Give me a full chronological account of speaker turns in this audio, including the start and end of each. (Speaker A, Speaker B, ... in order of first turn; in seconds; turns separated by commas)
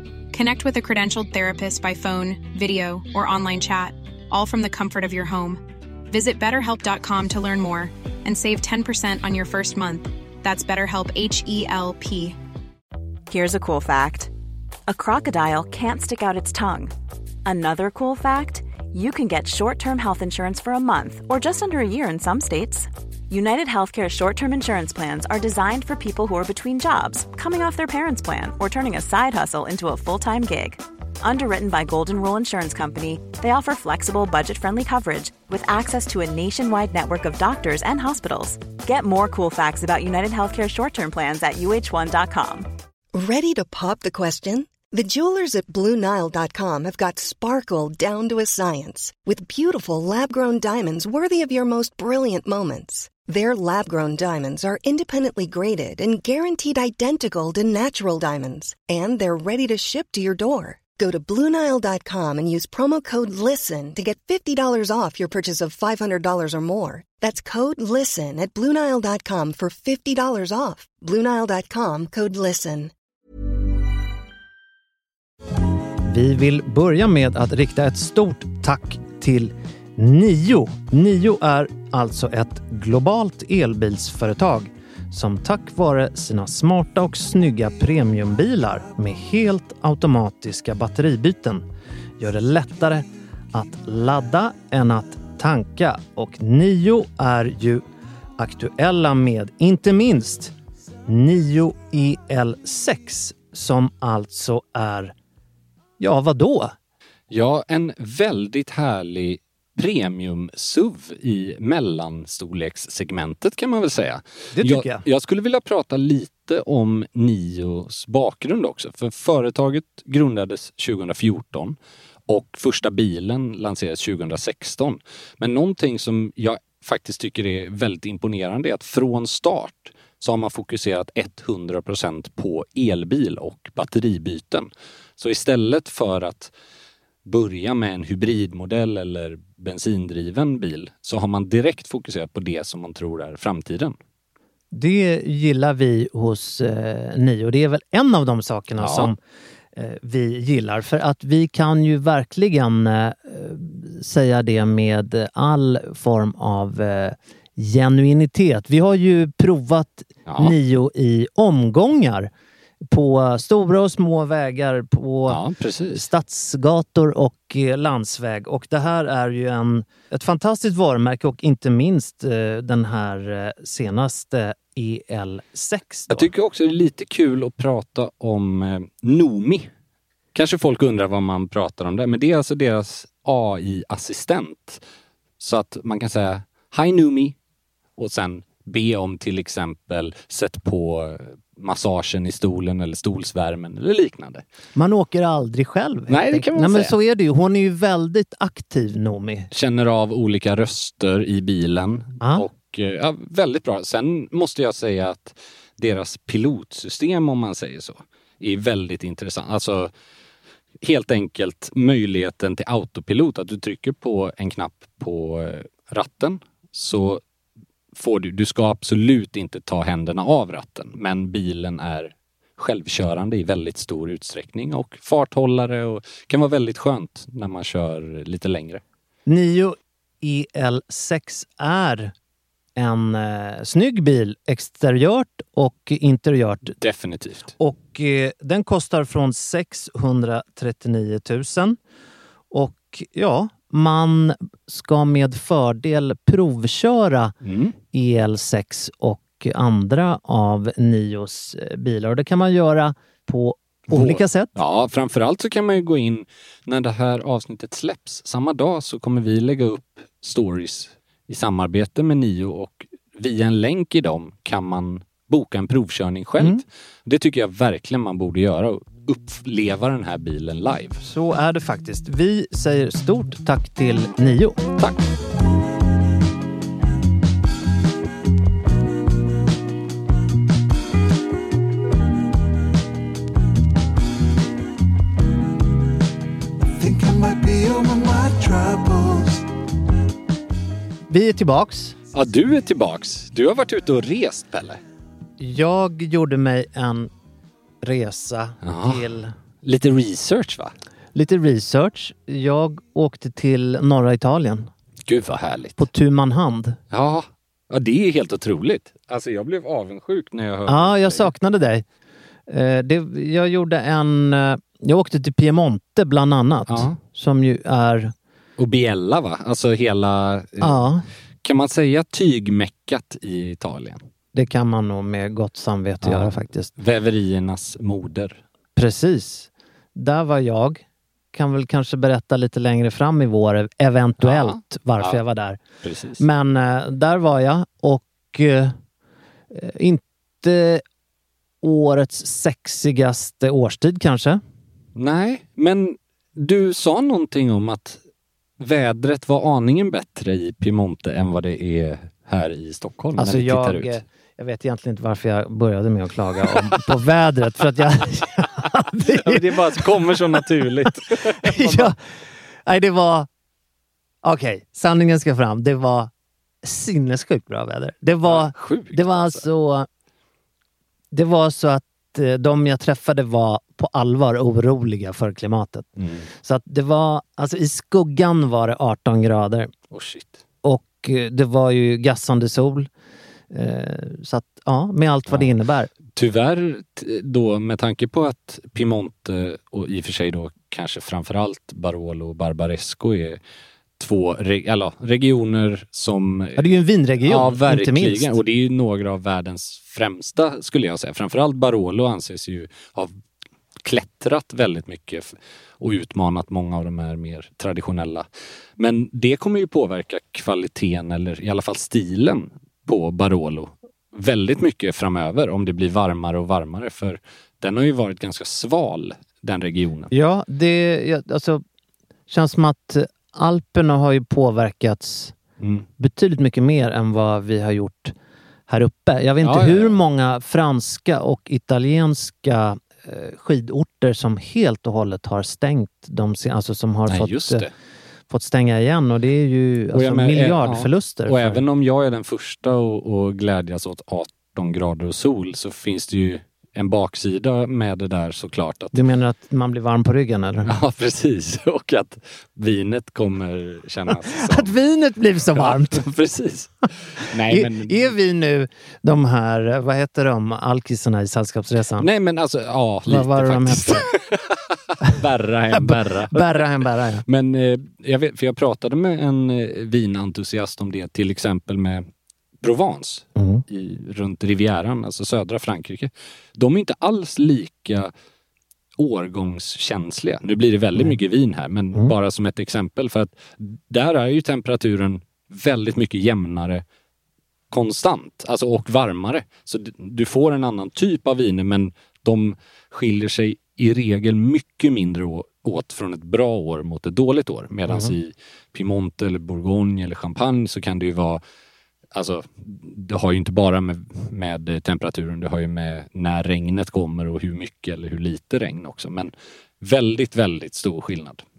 Speaker A: 0.3-12.4, Speaker B: 13.3-14.3, Speaker B: 14.9-16.9, Speaker B: 17.4-42.7, Speaker C: 43.1-72.9, Speaker D: 76.1-91.6, Speaker D: 92.2-97.8, Speaker D: 98.4-100.5, Speaker D: 101.1-105.1, Speaker D: 106.0-106.7, Speaker E: 107.3-136.5, Speaker D: 114.5-115.0, Speaker E: 137.2-144.0, Speaker D: 144.7-149.2, Speaker E: 148.8-149.1, Speaker D: 149.8-162.3, Speaker E: 160.3-160.6, Speaker D: 162.9-165.4, Speaker E: 165.3-166.1, Speaker D: 165.9-176.3, Speaker E: 176.1-179.7, Speaker E: 180.3-184.8, Speaker E: 185.4-187.4, Speaker E: 188.0-194.4, Speaker D: 194.8-199.5, Speaker E: 196.1-196.9, Speaker E: 199.5-209.9, Speaker D: 202.2-202.5, Speaker E: 210.8-217.2, Speaker E: 217.9-228.8, Speaker D: 229.3-232.1, Speaker D: 232.8-236.8, Speaker E: 236.8-237.5, Speaker D: 237.6-241.8, Speaker D: 242.5-247.3, Speaker E: 247.4-247.8, Speaker D: 247.9-254.6, Speaker E: 253.9-271.0, Speaker D: 266.4-266.6, Speaker D: 271.0-274.6, Speaker E: 274.8-275.0, Speaker E: 288.2-289.2, Speaker D: 291.1-292.0, Speaker E: 292.1-294.8, Speaker D: 295.4-297.1, Speaker D: 297.8-299.3, Speaker E: 298.6-299.0, Speaker E: 299.6-300.7, Speaker D: 301.1-304.7, Speaker E: 305.1-305.9, Speaker D: 305.8-306.8, Speaker E: 306.9-311.3, Speaker D: 310.7-311.9, Speaker D: 312.5-318.1, Speaker E: 316.7-317.0, Speaker E: 318.6-320.8, Speaker D: 320.6-321.1, Speaker E: 321.4-324.0, Speaker D: 324.3-326.7, Speaker E: 326.0-328.4, Speaker D: 328.8-335.6, Speaker E: 334.2-335.2, Speaker E: 335.8-336.2, Speaker D: 336.2-338.8, Speaker D: 339.5-340.8, Speaker D: 341.6-344.4, Speaker E: 345.0-348.0, Speaker E: 348.6-354.0, Speaker D: 353.2-362.0, Speaker E: 356.5-356.8, Speaker E: 358.9-361.9, Speaker D: 362.7-363.3, Speaker D: 364.2-366.1, Speaker D: 366.6-369.9, Speaker E: 368.2-369.4, Speaker D: 371.1-375.9, Speaker E: 376.0-376.3, Speaker D: 376.4-379.7, Speaker E: 379.9-380.4, Speaker D: 380.6-382.9, Speaker D: 383.5-385.9, Speaker E: 386.1-393.4, Speaker E: 394.0-403.1, Speaker D: 396.6-398.4, Speaker E: 403.8-408.2, Speaker E: 408.8-420.1, Speaker D: 420.1-421.6, Speaker D: 422.3-425.4, Speaker E: 425.6-425.9, Speaker D: 426.0-428.1, Speaker D: 428.7-437.7, Speaker E: 429.4-430.0, Speaker E: 437.1-437.7, Speaker D: 438.3-441.6, Speaker E: 439.9-449.0, Speaker D: 448.9-450.7, Speaker E: 450.6-454.7, Speaker D: 454.1-456.1, Speaker E: 455.5-458.1, Speaker D: 457.5-462.1, Speaker E: 462.0-466.7, Speaker D: 463.1-464.1, Speaker D: 465.7-467.2, Speaker E: 467.2-472.1, Speaker E: 472.6-478.1, Speaker D: 473.4-473.6, Speaker E: 479.0-486.8, Speaker E: 487.7-501.4, Speaker D: 497.9-498.1, Speaker E: 502.1-511.4